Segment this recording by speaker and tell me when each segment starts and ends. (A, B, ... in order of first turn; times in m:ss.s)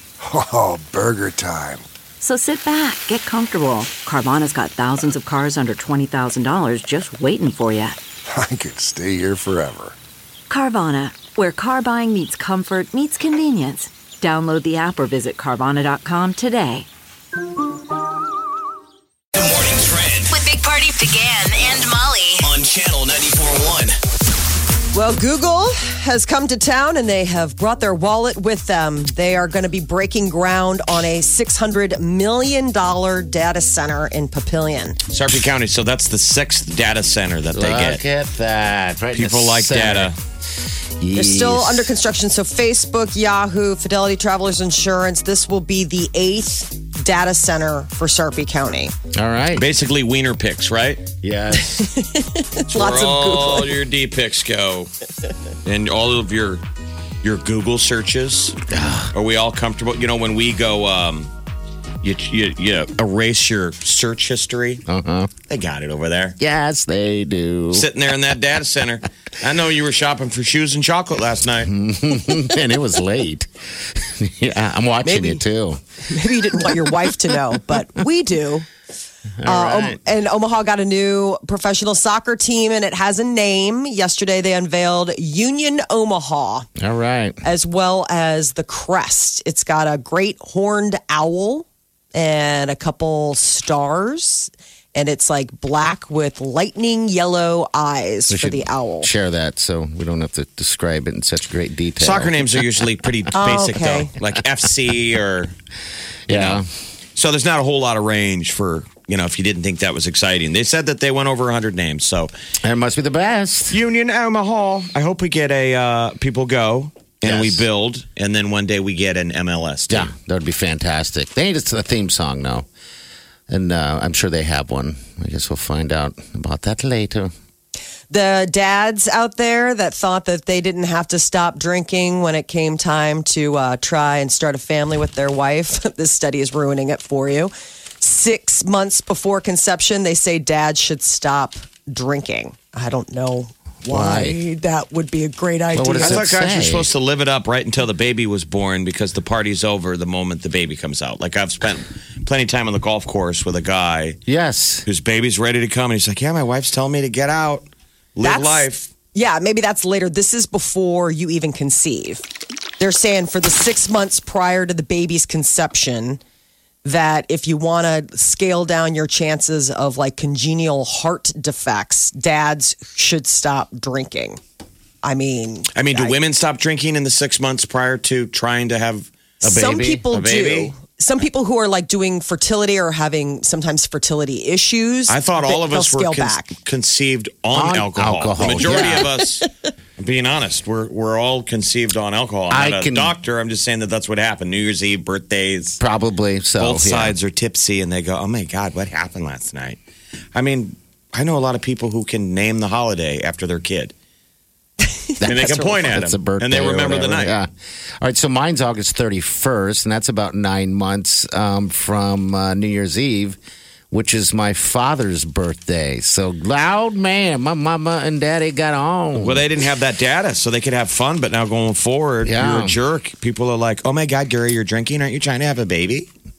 0:00.2-0:01.9 A
0:02.2-0:08.0 B
0:08.3-0:10.0 A
0:10.5-0:16.9 B
0:19.4-0:20.3 C
0:20.3-0:22.6 D
0:22.5-0:24.0 C
0:24.9-0:35.0 E
0:35.1-0:38.0 F
0:37.5-0:40.1 G
0:39.1-0:40.2 F
0:41.0-0:42.0 G
0:41.2-0:48.9 E
0:49.1-0:49.7 G
0:49.5-0:51.0 F
0:51.2-0:51.9 G
0:51.6-0:53.7 E
0:52.7-0:54.9 F
0:55.6-0:56.6 F
0:57.2-0:58.6 F
0:58.7-0:59.1 G
0:59.1-1:01.3 F
1:02.0-1:04.8 F
1:04.9-1:05.3 G
1:05.5-1:06.4 F
1:06.4-1:07.9 G
1:07.7-1:11.7 F
1:11.6-1:15.8 G
1:15.0-1:15.4 E
1:16.1-1:18.7 E
1:16.6-1:17.0 G
1:19.4-1:20.0 G
1:19.4-1:26.7 E
1:26.8-1:27.4 G
1:27.4-1:39.1 E
1:38.3-1:42.7 G
1:42.0-1:45.5 F
1:43.4-1:44.1 E
1:46.3-1:46.7 G
1:46.3-1:46.6 F
1:47.2-1:52.3 F
1:52.6-1:53.8 G
1:53.7-2:00.1 F
1:57.2-1:57.7 G
1:59.9-2:02.7 G
2:03.5-2:07.3 G
2:08.1-2:26.3 E
2:23.9-2:24.4 G
2:25.7-2:26.9 G
2:25.9-2:34.2 F
2:34.3-2:34.9 G
2:34.8-2:38.9 F
2:38.2-2:42.3 E
2:42.8-2:46.2 E
2:46.8-2:54.4 E
2:55.0-2:56.2 E
2:55.7-2:59.1 F
2:59.4-3:00.1 G
2:59.4-3:06.6 E
3:00.1-3:00.7 F
3:05.1-3:15.8 F
3:07.5-3:09.1 G
3:08.6-3:09.1 E
3:12.5-3:13.2 G
3:15.8-3:17.2 G
3:16.6-3:19.8 F
3:20.3-3:23.9 F
3:25.1-3:25.7 E
3:25.2-3:27.5 G
3:25.2-3:27.4 F
3:28.0-3:33.4 G
3:33.9-3:39.4 G
3:39.2-3:46.1 F
3:42.2-3:42.8 G